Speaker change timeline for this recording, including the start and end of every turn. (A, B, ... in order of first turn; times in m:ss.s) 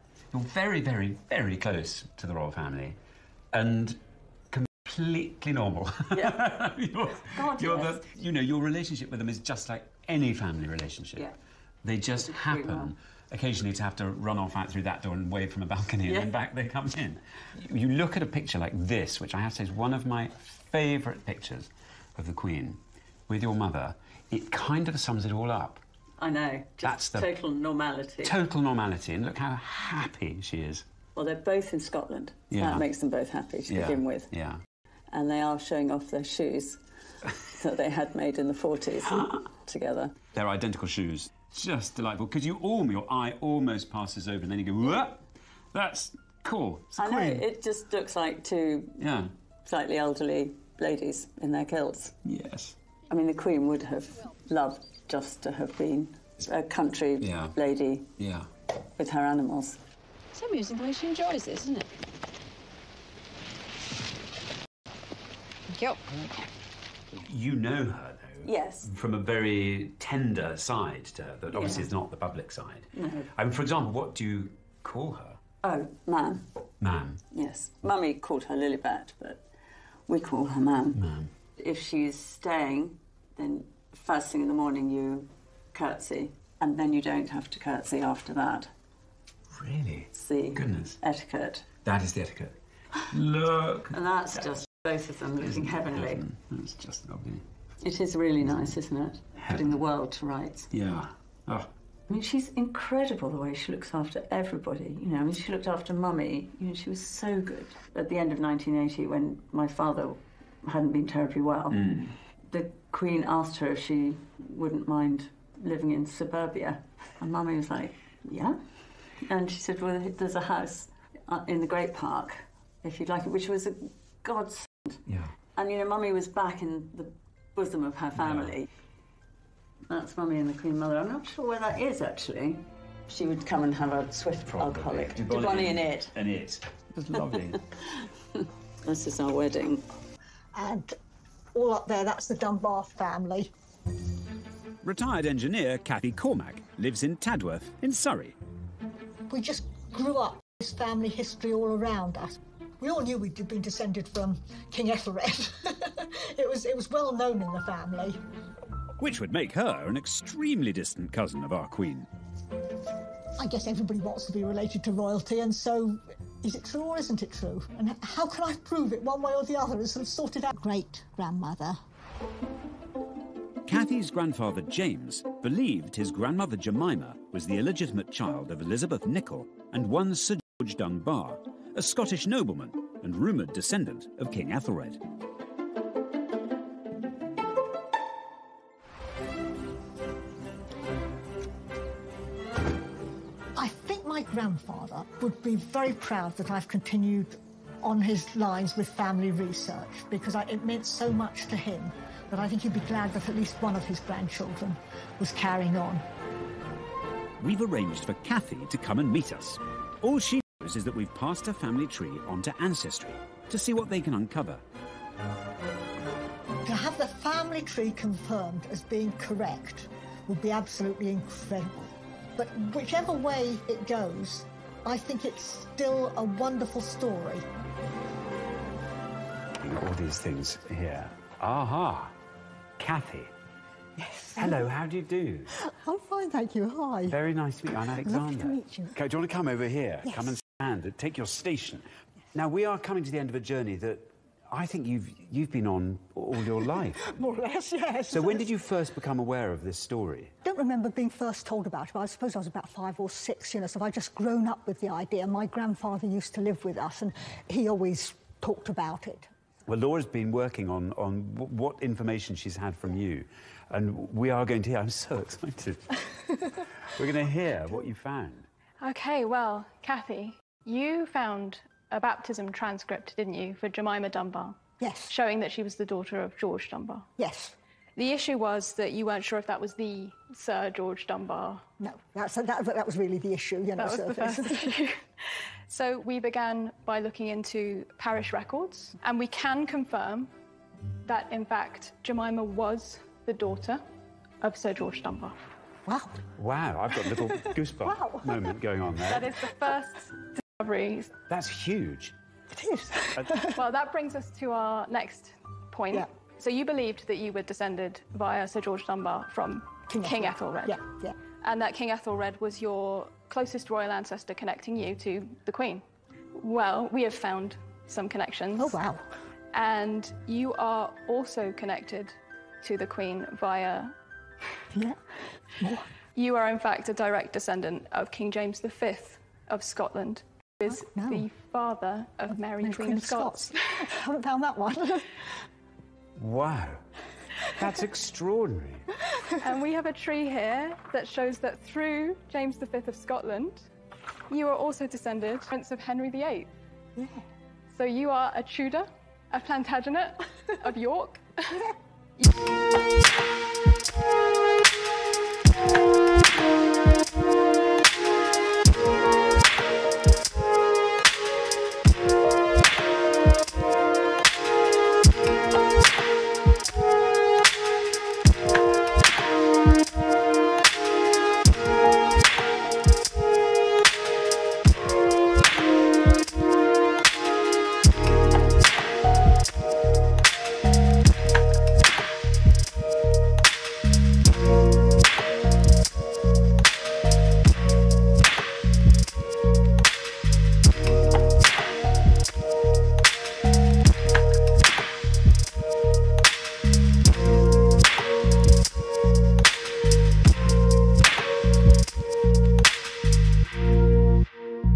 0:00.3-0:03.0 A
0:03.5-0:04.0 A
0:04.5-0:11.3 A
0:06.1-0:06.6 B
0:07.2-0:08.1 B
0:11.8-0:25.8 A
0:12.2-0:12.9 B
0:16.0-0:16.3 B
0:26.2-0:28.4 B
0:26.8-0:27.3 A
0:28.2-0:30.8 A
0:31.1-0:34.3 B
0:32.5-0:32.8 A
0:33.7-0:34.6 A
0:35.1-0:36.8 B
0:37.4-0:40.1 B
0:39.1-0:39.4 A
0:40.3-0:47.4 A
0:47.0-0:49.0 B
0:49.0-0:49.3 A
0:49.6-0:52.2 B
0:52.2-0:52.8 A
0:53.1-0:58.1 B
0:57.2-0:57.5 A
0:58.2-0:58.5 A
0:59.0-0:59.8 B
1:00.3-1:01.9 C
1:05.7-1:06.4 C
1:07.2-1:15.4 A
1:08.4-1:08.9 B
1:11.5-1:11.9 B
1:12.9-1:13.3 B
1:15.6-1:16.5 B
1:16.8-1:17.2 A
1:17.3-1:19.4 B
1:20.1-1:21.0 B
1:20.9-1:21.3 A
1:21.6-1:28.7 B
1:29.5-1:31.0 A
1:30.1-1:31.7 B
1:31.8-1:34.7 A
1:33.9-1:36.2 B
1:35.4-1:37.4 A
1:37.8-1:40.7 B
1:40.7-1:41.7 A
1:42.1-1:51.9 B
1:51.7-1:52.1 A
1:52.5-2:05.0 B
2:05.1-2:05.3 A
2:05.5-2:08.7 B
2:08.1-2:08.6 A
2:09.9-2:16.1 B
2:14.5-2:17.6 A
2:17.1-2:19.8 B
2:20.5-2:21.0 D
2:21.5-2:23.5 D
2:24.8-2:28.4 A
2:29.3-2:38.2 D
2:39.0-2:42.1 A
2:43.4-2:51.8 D
2:53.6-3:05.0 A
3:13.5-3:26.0 D
3:27.4-3:34.6 A
3:36.6-3:47.4 D
3:49.6-3:52.1 A
3:52.8-3:53.3 A
3:54.0-3:54.7 D
3:54.3-3:55.5 A
3:55.5-3:59.0 D
3:57.0-4:07.1 A
4:00.0-4:00.4 D
4:06.6-4:08.5 D
4:08.1-4:10.3 A
4:10.4-4:19.3 D
4:19.7-4:26.0 A
4:26.9-4:28.5 A
4:28.8-4:37.0 E
4:34.8-4:35.2 D
4:37.2-4:37.5 D
4:38.0-4:41.6 E
4:41.8-4:45.0 D
4:43.8-4:45.0 E
4:45.7-4:50.3 E
4:51.0-4:53.8 E
4:54.4-4:55.4 E
4:55.8-4:56.2 D
4:56.4-4:59.3 A
4:56.9-4:58.6 D
4:59.0-5:01.1 E
5:01.3-5:02.1 A
5:02.5-5:03.6 D
5:03.5-5:10.8 E
5:09.9-5:11.1 D
5:11.4-5:15.8 E
5:16.3-5:18.8 E
5:18.6-5:19.0 D
5:19.5-5:23.9 E
5:24.7-5:25.9 D
5:26.2-5:33.9 E
5:30.6-5:31.3 D
5:32.3-5:35.2 D
5:36.2-5:36.8 A
5:37.5-5:38.9 A
5:39.4-5:43.7 E
5:44.3-5:46.5 E
5:47.0-5:47.2 D
5:47.7-5:51.7 E